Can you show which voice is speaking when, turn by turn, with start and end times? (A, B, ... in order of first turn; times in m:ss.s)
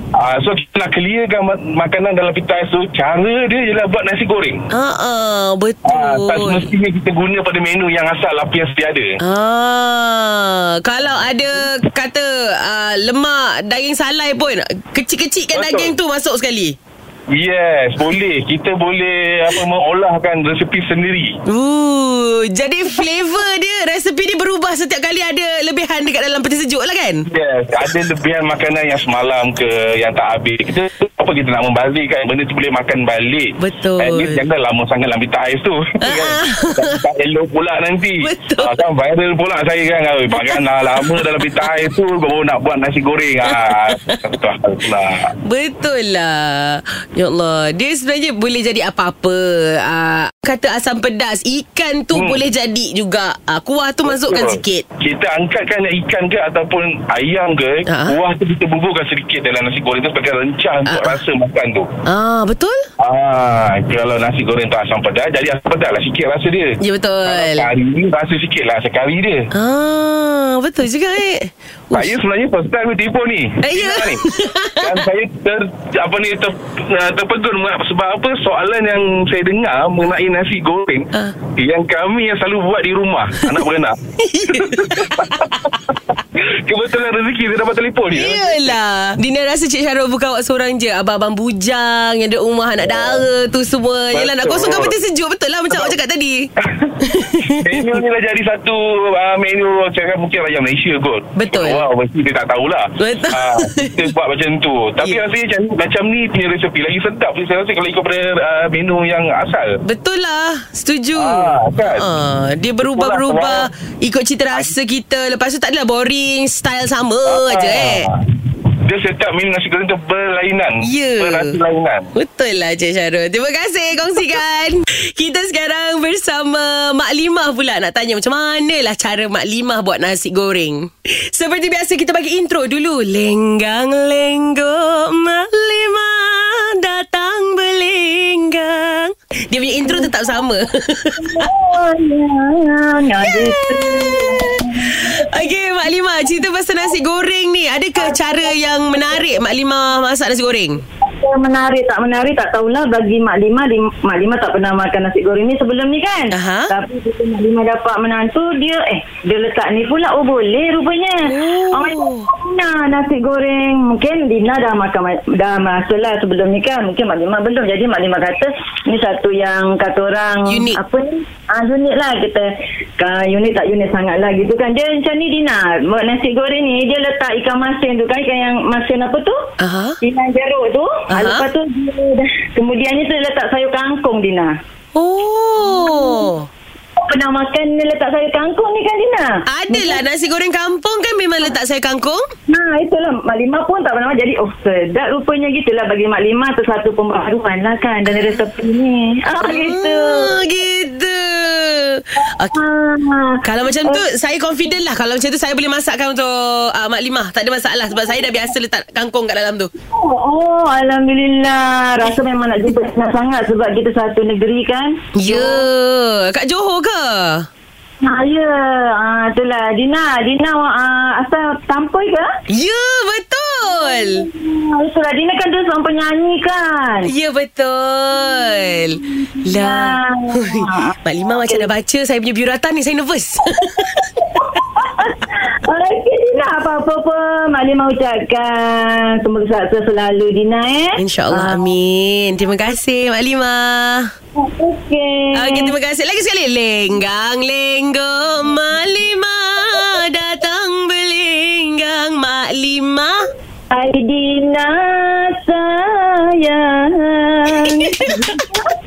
0:00.1-0:04.7 A
0:04.7-0:06.7 B
0:05.8-0:09.2 A
0:09.2-0:16.8 B
0:15.5-0:15.9 A
0:17.3-0:21.4 A
0:21.5-0:27.2 B
0:27.3-0:45.3 A
0:33.6-0:34.4 B
0:36.0-0:37.0 B
0:38.2-0:38.8 B
0:40.4-0:41.7 B
0:43.7-0:44.2 B
0:45.4-0:54.8 B
0:52.1-0:52.4 A
0:54.0-1:01.9 A
0:57.9-0:58.2 B
1:00.8-1:01.2 B
1:02.1-1:02.8 B
1:03.0-1:09.5 A
1:06.8-1:07.7 B
1:09.5-1:12.1 B
1:11.9-1:14.3 A
1:13.6-1:15.0 B
1:14.8-1:24.0 A
1:24.2-1:25.7 B
1:24.5-1:25.3 A
1:26.6-1:28.8 A
1:28.1-1:36.5 B
1:32.9-1:33.2 A
1:34.1-1:34.9 A
1:36.6-1:36.9 A
1:37.0-1:38.0 B
1:37.6-1:49.8 A
1:41.4-1:41.9 B
1:43.0-1:44.1 B
1:49.8-1:58.1 B
1:51.1-1:52.1 A
1:52.8-1:53.7 A
1:57.2-1:58.2 A
1:58.8-2:02.1 A
2:00.8-2:01.6 B
2:02.1-2:21.5 B
2:21.2-2:25.5 C
2:23.2-2:30.8 B
2:28.0-2:28.5 C
2:31.1-2:52.5 C
2:36.3-2:36.7 B
2:41.2-2:42.3 B
2:50.5-2:50.8 B
2:53.0-2:59.3 C
2:59.6-3:00.0 B
3:00.0-3:04.5 C
3:01.1-3:01.4 B
3:04.9-3:06.5 B
3:05.7-3:06.2 C
3:07.0-3:10.0 C
3:09.5-3:12.2 B
3:12.5-3:20.3 C
3:18.1-3:18.4 B
3:19.4-3:22.6 B
3:22.5-3:24.0 C
3:23.4-3:29.7 B
3:29.9-3:35.6 C
3:35.2-3:37.4 B
3:38.0-3:42.2 C
3:42.5-3:44.2 B
3:43.6-3:47.1 C
3:47.0-3:54.6 B
3:49.1-3:51.7 C
3:54.9-4:01.6 C
4:01.0-4:04.1 B
4:04.4-4:05.7 C
4:05.3-4:13.1 B
4:13.7-4:18.7 C
4:17.5-4:18.3 B